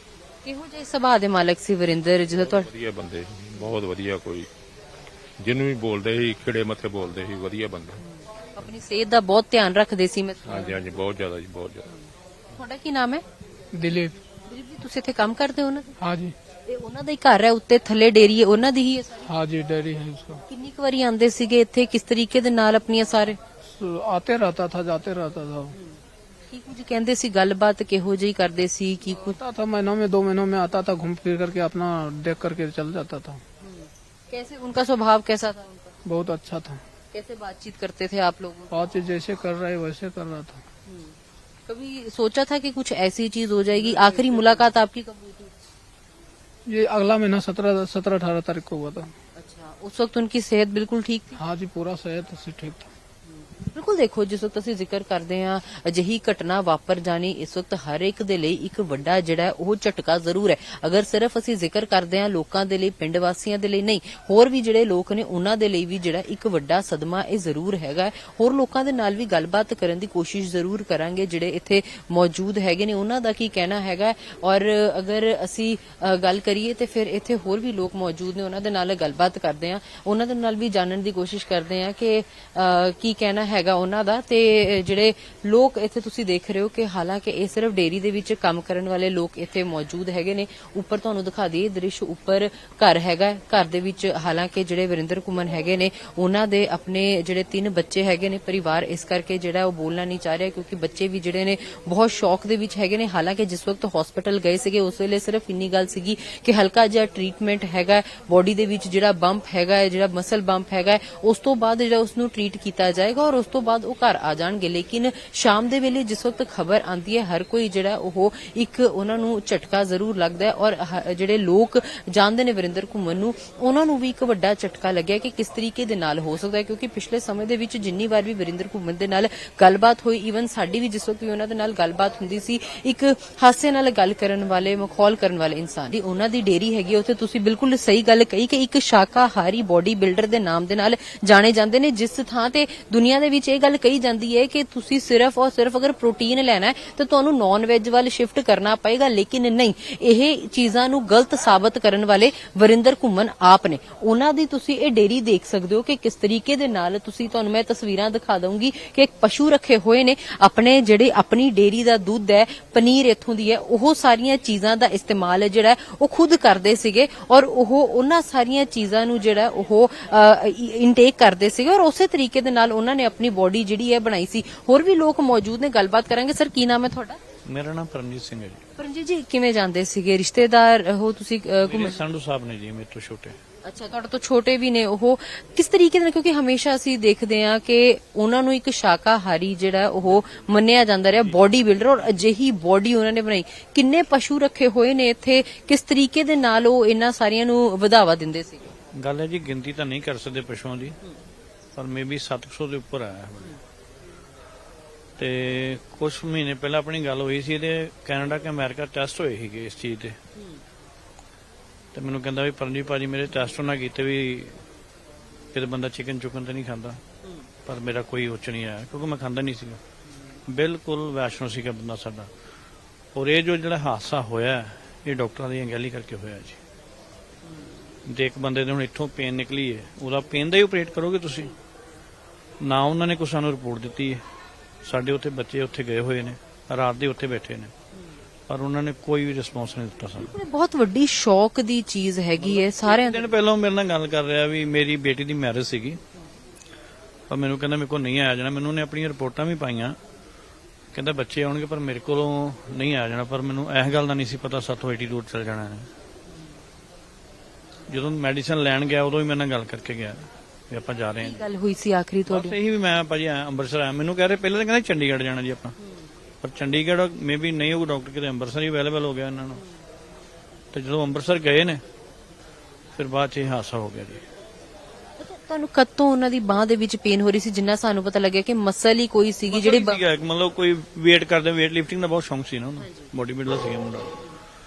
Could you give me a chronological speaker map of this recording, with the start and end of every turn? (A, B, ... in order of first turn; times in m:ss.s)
0:00.4-0:02.7 A
0:02.3-0:04.5 B
0:05.4-0:08.0 B
0:08.2-0:10.7 A
0:10.4-0:11.9 B
0:12.5-0:13.2 A
0:13.7-0:14.2 C
0:14.4-0:16.0 A
0:16.0-0:16.4 C
0:16.7-0:19.3 A
0:19.2-0:20.4 C
0:20.5-0:23.4 A
0:23.6-0:25.7 C
0:25.8-0:29.4 A
0:29.2-0:33.4 C
0:33.6-0:35.9 A
0:36.0-0:36.8 C
0:37.1-0:38.8 A
0:38.7-0:40.6 C
0:40.9-0:45.5 A
0:43.8-0:44.6 C
0:46.6-0:49.1 C
0:49.4-0:51.4 A
0:51.3-0:52.9 C
0:53.4-2:57.2 A
2:57.4-2:58.6 D
2:58.8-3:02.0 A
3:01.6-3:03.4 D
3:03.6-3:18.7 A
3:10.1-3:10.4 D
3:11.2-3:12.1 D
3:18.9-3:21.0 D
3:21.8-3:23.5 D
3:25.2-3:30.2 D
3:31.9-3:34.6 D
3:35.5-3:37.0 D
3:37.6-3:39.8 D
3:40.5-3:42.3 D
3:43.1-3:46.6 D
3:48.0-3:51.5 D
3:52.6-3:54.2 D
3:54.8-3:57.7 D
3:58.5-4:00.3 D
4:00.2-4:03.3 A
4:02.4-4:06.0 D
4:07.3-4:10.0 D
4:10.9-4:15.9 D
4:17.9-4:21.4 D
4:21.2-4:22.6 A
4:22.3-4:25.7 D
4:26.4-4:29.6 D
4:30.7-4:31.8 D
4:33.0-4:34.2 D
4:35.2-4:40.0 A
4:39.5-4:44.2 D
4:42.8-4:43.1 A